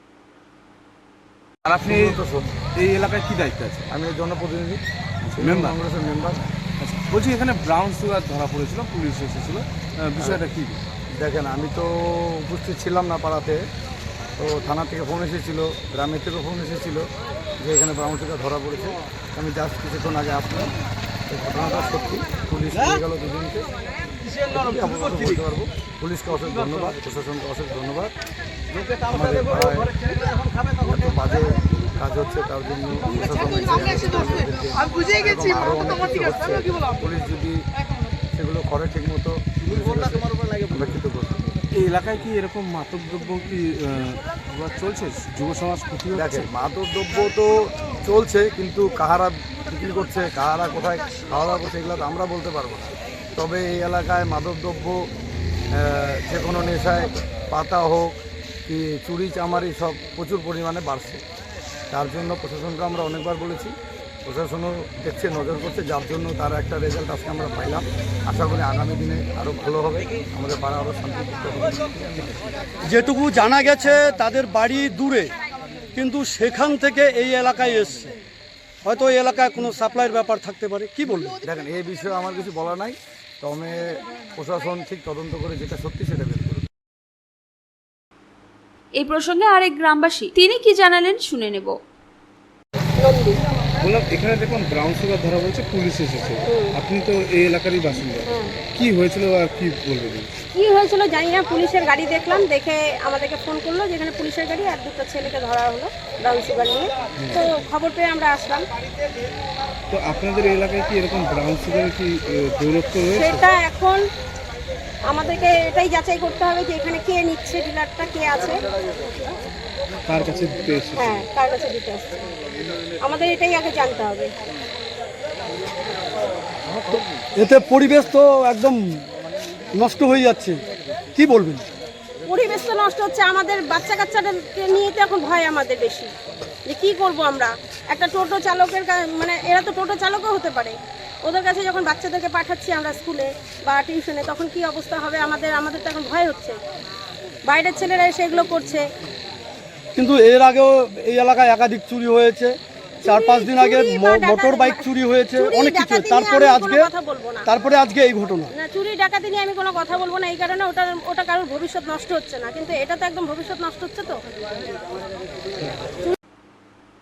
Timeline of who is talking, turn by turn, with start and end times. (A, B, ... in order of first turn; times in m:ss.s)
0:01.6-0:02.2 A
0:01.8-0:02.6 B
0:02.8-0:03.9 A
0:03.9-0:04.8 B
0:05.2-0:05.8 A
0:05.4-0:06.4 B
0:06.8-0:10.8 A
0:10.2-0:10.4 B
0:11.2-0:13.6 B
0:14.4-0:17.1 B
0:17.6-0:20.7 B
0:21.3-0:23.7 B
0:24.5-0:28.1 B
0:29.1-0:30.0 B
0:30.7-0:37.6 B
0:38.3-0:41.6 B
0:41.7-0:46.5 A
0:46.1-0:55.1 B
0:55.7-1:01.2 B
1:01.9-1:12.5 B
1:12.8-1:15.3 C
1:15.9-1:18.1 C
1:18.8-1:21.3 C
1:21.4-1:26.6 B
1:29.0-1:31.8 D
1:33.0-1:33.4 E
1:33.8-1:40.3 A
1:36.5-1:36.8 E
1:38.2-1:38.6 E
1:40.5-1:48.6 E
1:47.2-1:47.4 A
1:49.9-1:53.4 A
1:53.1-1:54.0 E
1:55.1-1:58.6 E
2:00.1-2:01.3 A
2:00.9-2:02.2 E
2:03.0-2:04.3 E
2:07.4-2:08.8 C
2:09.7-2:10.6 C
2:11.1-2:11.6 C
2:12.2-2:16.1 E
2:16.6-2:26.6 E
2:27.4-2:28.9 E
2:30.0-2:36.9 C
2:33.0-2:37.5 E
2:37.4-2:38.5 C
2:38.5-2:44.2 E